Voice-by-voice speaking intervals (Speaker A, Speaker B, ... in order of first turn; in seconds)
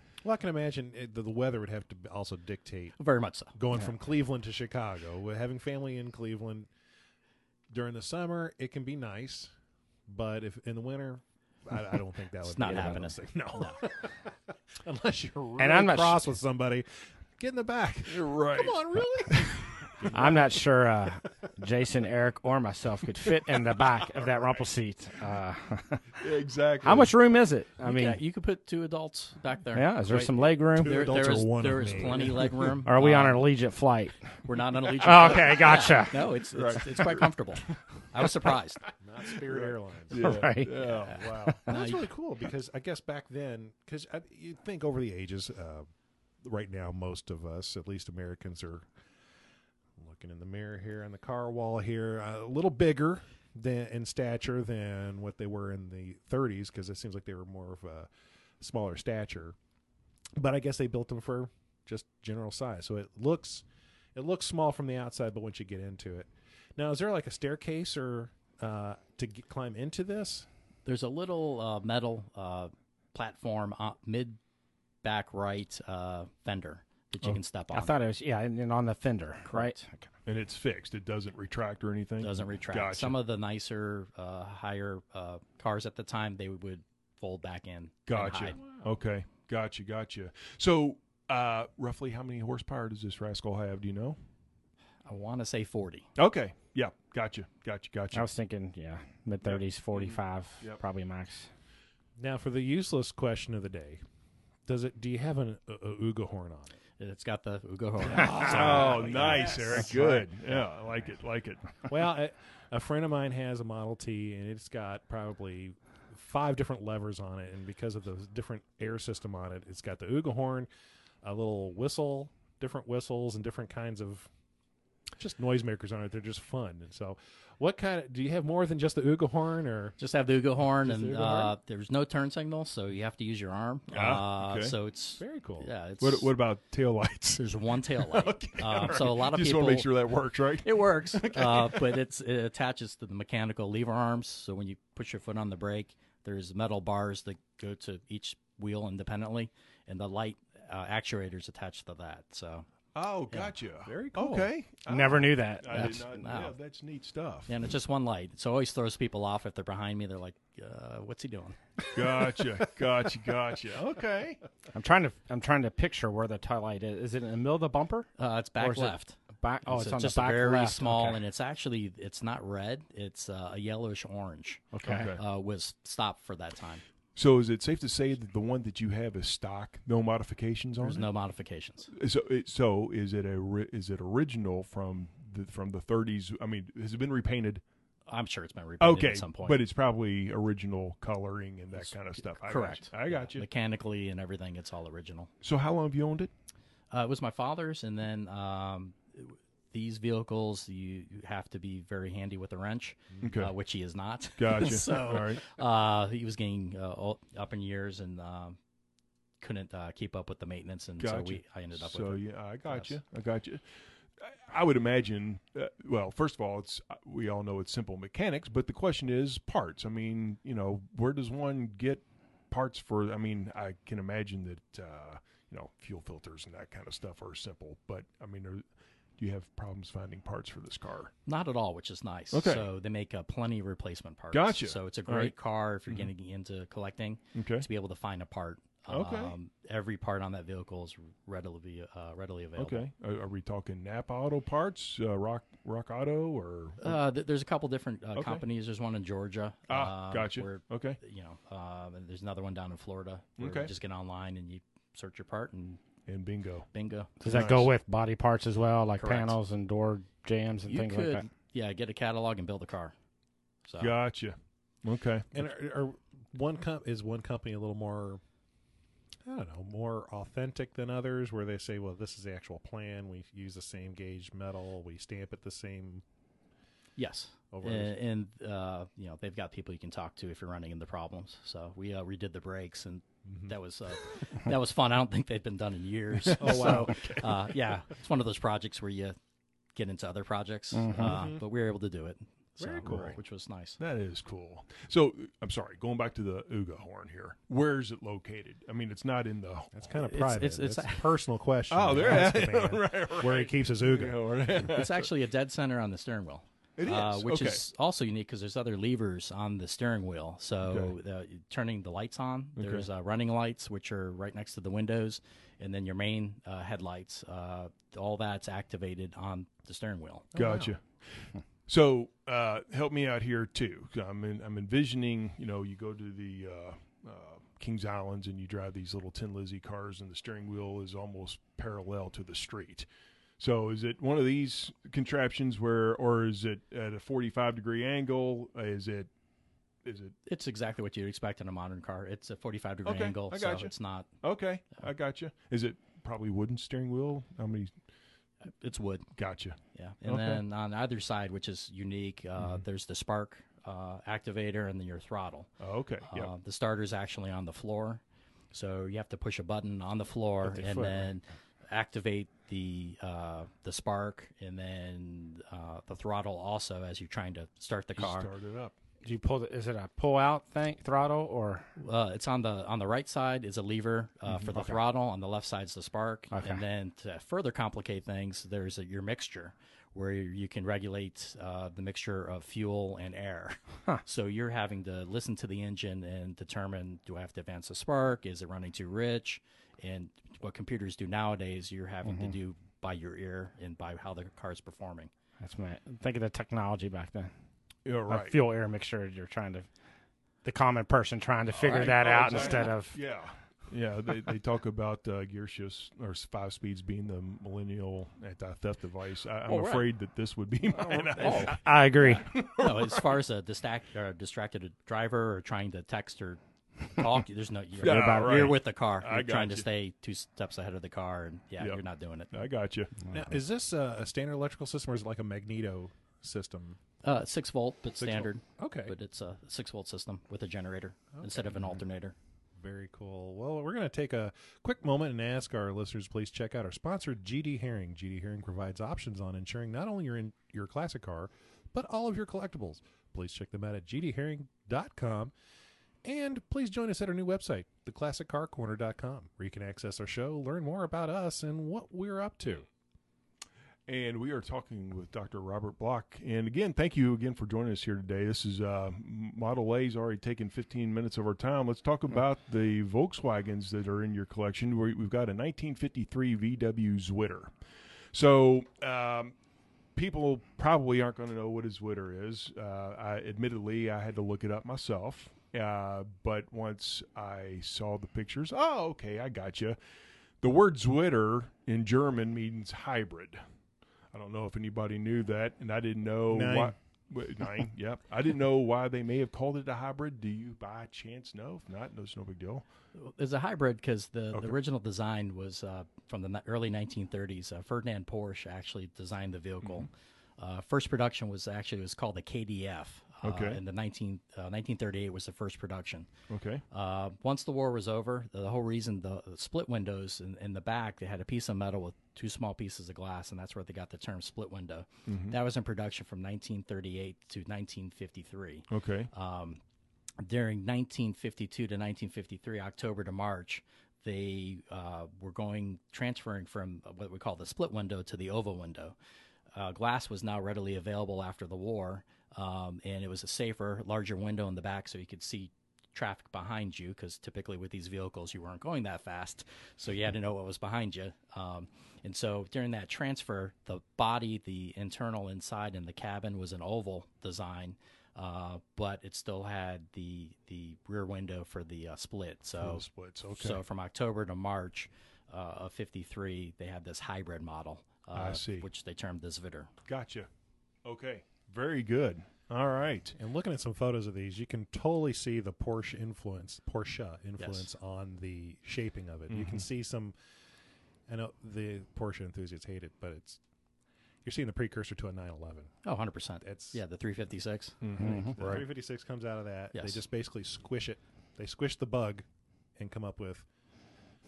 Speaker A: 0.2-3.0, 3.5-6.7, 7.7-9.5, 10.1-16.9, 17.4-20.5, 30.1-32.5, 39.0-40.7, 41.5-45.9, 46.4-48.9, 50.0-58.1, 58.6-59.6, 60.4-70.5, 88.5-88.9, 102.2-104.0, 104.7-106.8, 108.1-110.3, 111.9-120.7, 121.2-124.3, 125.2-130.0, 130.7-131.6, 135.2-135.7, 153.8-154.5, 265.3-268.2, 269.2-276.0, 277.5-277.9, 283.2-283.6, 286.4-287.2, 290.9-291.4, 292.6-293.2, 299.7-304.4, 320.3-320.7, 423.1-426.8, 428.6-428.9, 431.2-431.8, 432.6-445.3, 446.0-452.7, 486.3-486.8, 563.2-570.1, 571.1-573.4, 574.2-575.7, 576.4-576.8, 577.9-582.2, 582.8-583.5
Speaker B: 3.0-3.5, 12.4-13.8, 27.8-33.5, 34.5-38.9, 40.8-42.1, 70.9-74.4, 75.0-78.0, 79.5-79.8, 82.2-88.6, 95.1-96.1, 107.0-110.0, 130.0-136.3, 137.4-139.9, 140.6-152.7, 155.7-156.5, 157.5-161.6, 168.2-176.8, 180.8-181.9, 188.1-189.6, 191.8-195.3, 196.9-208.6, 209.4-212.9, 231.3-242.9, 246.8-255.8, 256.7-257.1, 259.0-259.4, 260.7-262.9, 263.7-263.9, 277.0-289.2, 289.8-293.8, 300.0-301.1, 304.5-320.3, 340.3-344.1, 348.6-349.1, 349.7-355.5, 356.1-358.0, 358.5-368.3, 371.8-395.1, 401.6-402.6, 409.5-409.9, 410.7-422.4, 427.0-432.1, 492.9-506.1, 506.7-519.6, 520.2-529.0, 529.5-559.7, 567.4-567.7, 575.8-577.8, 579.7-580.0
Speaker C: 15.6-16.3, 20.1-26.1, 26.8-28.2, 29.7-31.5, 32.8-34.3, 35.0-36.4, 40.1-40.9, 77.7-80.1, 98.1-101.5, 154.9-156.1, 164.7-171.2, 174.7-175.1, 257.2-261.2, 290.8-291.3, 369.0-371.7, 376.3-376.6, 392.1-392.3, 395.4-397.3, 398.1-399.7, 400.4-403.0, 411.2-412.3, 417.8-418.5, 578.0-578.4
Speaker D: 18.1-19.9, 26.2-27.1, 36.5-41.7, 80.3-83.2, 88.1-94.2, 96.2-98.3, 99.5-100.8, 108.1-111.8, 133.9-134.8, 136.0-141.9, 152.9-157.5, 161.9-164.4, 174.9-175.2, 177.2-181.1, 181.9-187.6, 188.8-193.4, 195.4-196.3, 203.2-203.5, 204.4-205.4, 211.0-213.6, 214.2-228.6, 229.2-231.1, 232.3-232.7, 234.3-235.3, 237.3-237.7, 238.9-239.3, 242.6-247.0, 248.2-248.4, 249.7-251.0, 253.4-253.7, 256.1-256.7, 257.2-257.7, 263.8-265.3, 286.3-287.4, 293.8-299.7, 301.7-305.1, 306.8-307.6, 310.7-310.9, 312.6-312.9, 320.4-332.9, 333.4-339.1, 339.9-340.1, 342.9-347.7, 349.2-350.4, 355.6-356.3, 360.6-361.1, 368.0-368.7, 397.9-398.4, 401.6-413.2, 417.8-419.7, 422.3-423.0, 428.0-428.3, 453.9-467.5, 468.1-469.3, 469.9-479.8, 480.4-483.4, 484.1-492.6, 503.2-503.6, 506.3-506.6, 515.1-515.4, 518.7-519.1, 552.6-553.6, 558.1-558.7, 559.9-560.3, 560.9-563.2, 569.3-569.7, 577.8-578.7